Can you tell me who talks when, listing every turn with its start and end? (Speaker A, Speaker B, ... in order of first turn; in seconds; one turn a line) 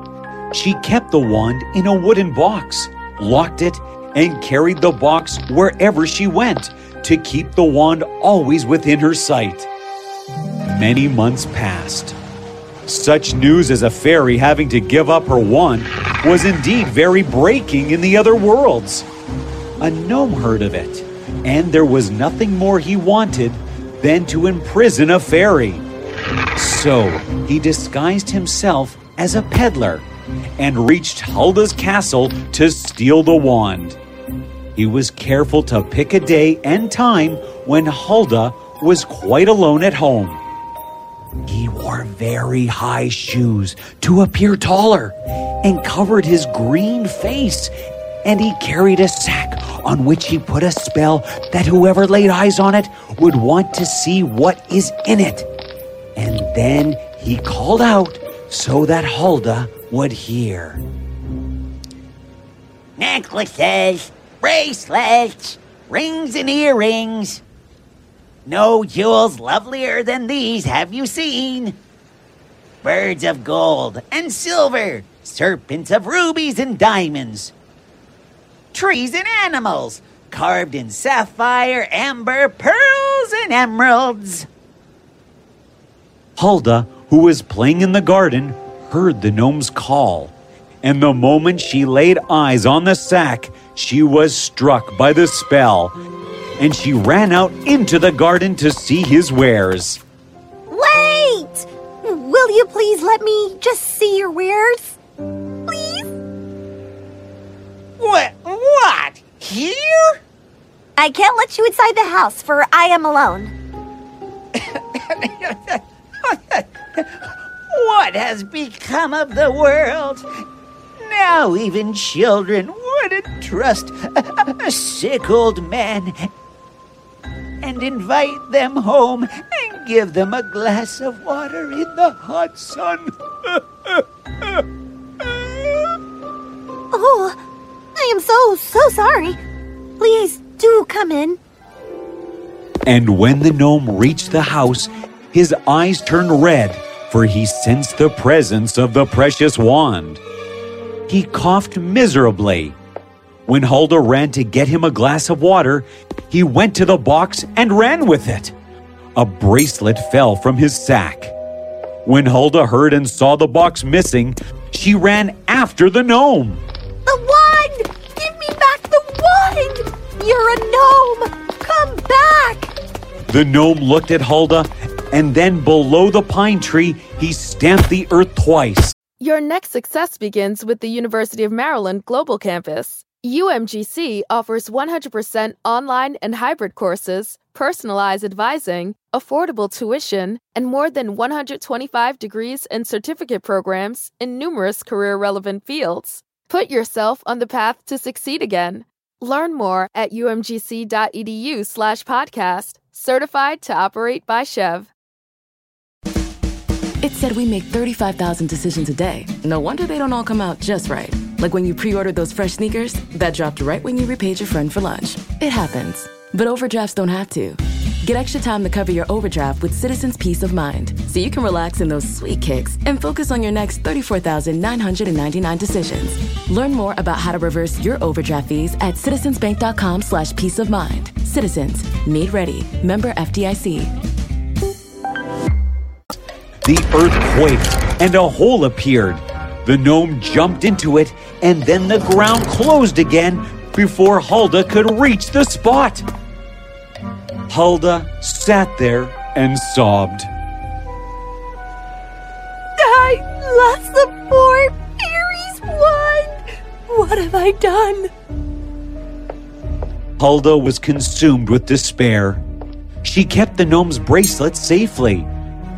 Speaker A: 0.5-9.7
Speaker A: 10.7-12.2
Speaker A: 12.9-19.1
Speaker A: 19.8-25.8
Speaker A: 26.6-30.0
Speaker A: 30.6-34.0
Speaker A: 34.8-40.4
Speaker A: 41.5-47.7
Speaker A: 48.2-55.5
Speaker A: 56.2-60.8
Speaker B: 63.0-67.4
Speaker B: 68.5-71.8
Speaker B: 72.8-77.5
Speaker B: 78.7-84.5
Speaker A: 86.4-95.9
Speaker A: 96.6-100.0
Speaker C: 100.7-105.0
Speaker C: 105.7-106.1
Speaker B: 108.0-110.1
Speaker C: 111.0-113.5
Speaker B: 114.5-120.3
Speaker B: 121.0-126.3
Speaker B: 127.6-133.1
Speaker C: 136.9-137.4
Speaker C: 137.9-139.4
Speaker C: 140.0-141.4
Speaker A: 142.8-150.2
Speaker A: 151.1-152.8
Speaker A: 153.5-158.5
Speaker A: 159.2-161.3
Speaker A: 162.0-166.6
Speaker C: 167.1-172.7
Speaker D: 172.0-172.5
Speaker A: 173.3-178.9
Speaker E: 179.2-204.9
Speaker F: 207.0-233.9
Speaker A: 236.6-246.1
Speaker A: 247.5-250.3
Speaker D: 252.8-258.1
Speaker A: 260.2-262.4
Speaker A: 263.0-265.3